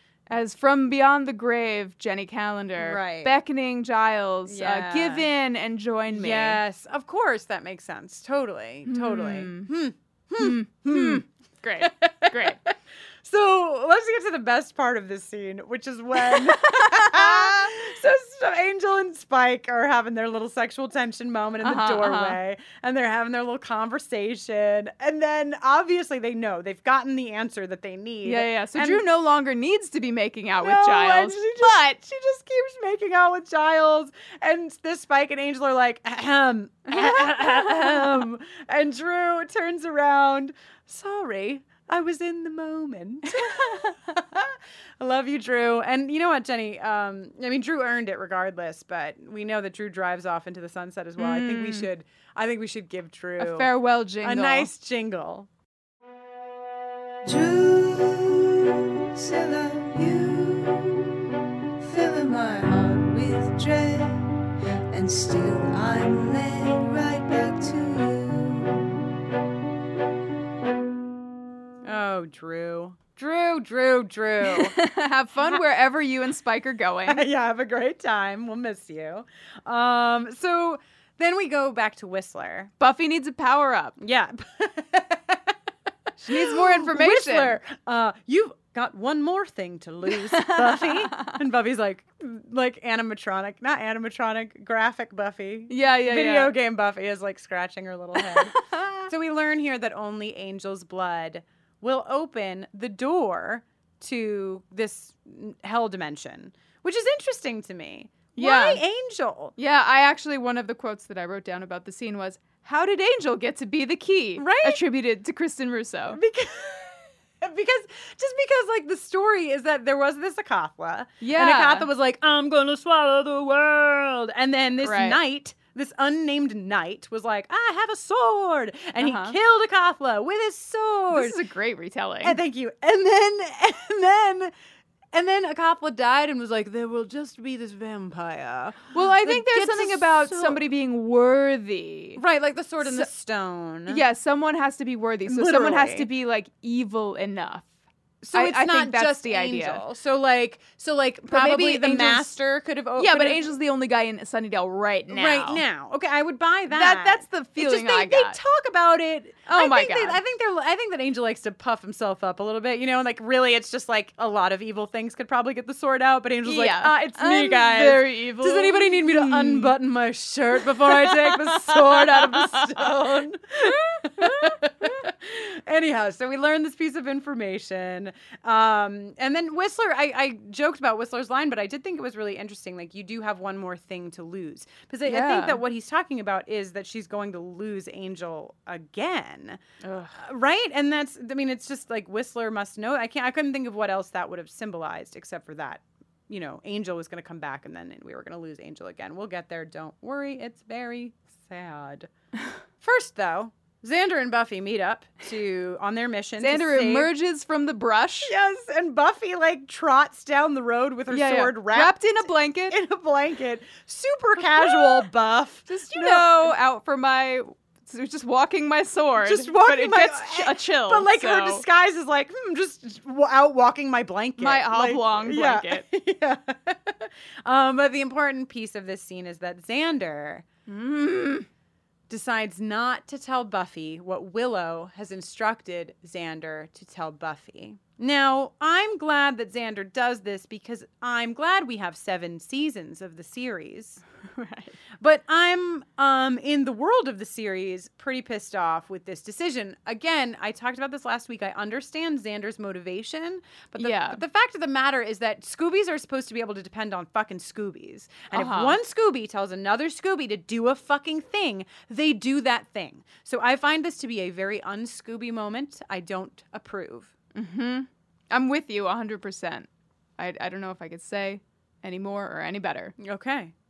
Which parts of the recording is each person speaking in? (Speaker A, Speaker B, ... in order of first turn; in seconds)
Speaker A: 0.3-6.6, 8.9-9.7, 10.4-12.6, 16.2-17.7, 21.6-22.4, 28.2-32.0, 36.9-38.0, 43.3-43.9, 51.2-51.9, 53.4-54.7, 74.5-77.3, 82.8-84.0, 86.3-87.6, 90.1-91.4, 95.7-96.5, 98.2-99.1, 108.4-108.8, 109.6-116.2, 121.2-121.9, 124.8-125.2, 129.0-129.4, 131.1-132.4, 138.9-142.2, 142.8-143.1, 143.9-147.7, 148.3-149.8, 151.3-152.4, 153.0-155.6, 156.7-158.4, 159.5-160.2, 166.5-169.7, 170.6-172.9, 173.8-174.6, 185.1-185.6, 189.8-190.2, 206.4-208.3, 211.1-212.8, 214.4-215.1, 215.7-221.7, 224.4-225.8, 230.7-231.5, 244.3-244.8, 253.8-254.2, 258.3-258.8, 267.4-272.9
Speaker B: 2.8-3.4, 4.5-5.3, 6.1-11.2, 11.8-29.1, 30.6-53.7, 54.2-55.5, 71.8-74.8, 77.1-82.7, 84.0-85.5, 86.2-98.5, 99.1-109.5, 114.4-114.8, 116.1-131.4, 132.2-134.5, 135.1-140.6, 142.2-144.0, 145.3-146.1, 148.2-153.5, 155.1-189.6, 190.2-202.1, 202.8-207.1, 208.2-216.5, 219.2-230.4, 232.1-244.0, 245.0-267.1, 273.0-273.5
Speaker C: 57.3-61.1, 61.8-64.3, 64.9-68.8